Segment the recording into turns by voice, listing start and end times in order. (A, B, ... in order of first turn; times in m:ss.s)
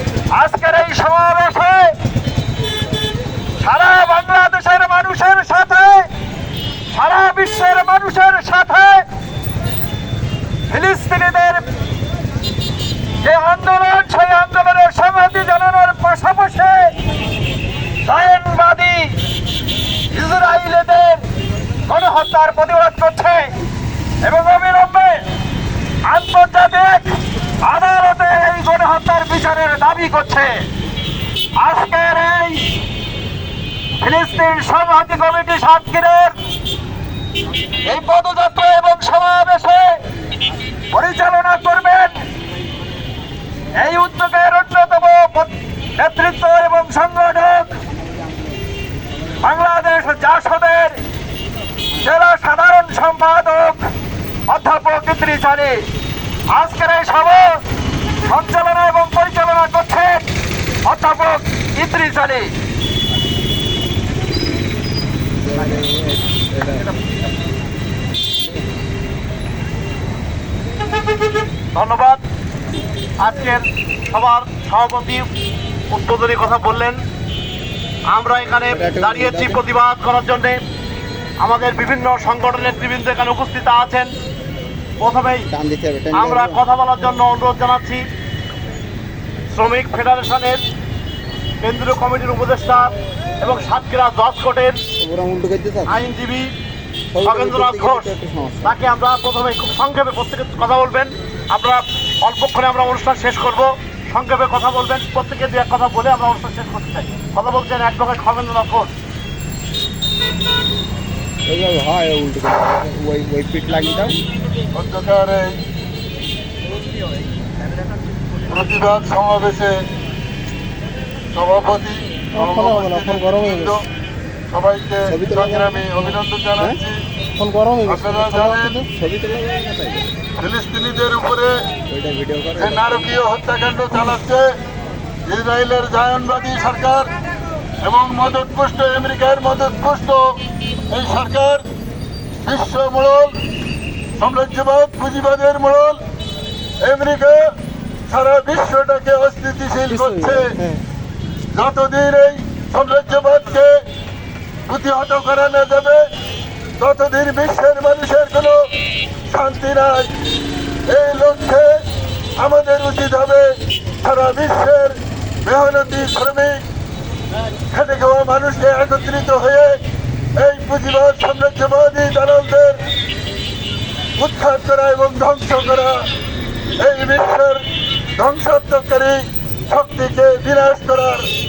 0:00.3-0:01.9 A
0:03.6-0:06.1 A
0:06.9-0:09.0 A
0:10.7-0:11.6 A
0:13.2-0:16.9 A
0:18.0-0:19.2 A
0:20.1-0:21.2 A
0:21.9-0:23.5 A
0:24.2-0:25.2 A
0:26.0-0:30.6 A
0:31.6-0:32.7 A
0:34.0-0:36.4 A
0:37.8-0:40.0 A
0:40.9-0:42.2 A
0:43.8-0:47.7 A
0:49.4-0:51.0 A
0:52.0-0:53.9 A
0:54.5-0:55.8 A
0:56.5-0:57.6 A
0:58.3-1:00.3 A
1:00.8-1:02.5 A
1:05.5-1:06.8 B
1:11.7-1:12.2 C
1:13.2-1:15.3 C
1:15.9-1:17.0 C
1:18.1-1:20.6 C
1:18.7-1:19.6 B
1:21.4-1:24.1 C
1:25.0-1:25.5 C
1:25.5-1:26.6 B
1:26.1-1:28.0 C
1:29.5-1:30.6 C
1:31.6-1:34.8 C
1:35.0-1:36.0 B
1:35.9-1:36.5 C
1:37.1-1:38.7 B
1:37.2-1:38.1 C
1:38.6-1:48.9 C
1:51.5-1:54.2 B
1:54.7-1:55.6 D
1:58.5-1:59.9 D
2:01.3-2:03.8 D
2:04.5-2:07.0 D
2:05.1-2:06.8 B
2:07.8-2:08.8 D
2:08.8-2:10.1 B
2:10.4-2:11.7 D
2:11.9-2:13.2 B
2:12.6-2:14.6 D
2:15.3-2:17.1 D
2:17.8-2:20.4 D
2:20.9-2:21.7 D
2:22.4-2:23.4 D
2:24.2-2:26.0 D
2:26.8-2:27.5 D
2:28.1-2:30.6 D
2:30.0-2:30.5 B
2:31.5-2:33.8 D
2:34.7-2:36.1 D
2:36.8-2:38.7 D
2:39.3-2:40.1 D
2:40.9-2:41.8 D
2:42.4-2:46.6 D
2:47.7-2:49.8 D
2:50.4-2:52.8 D
2:54.2-2:56.1 D
2:56.8-2:57.6 D
2:58.2-3:01.3 D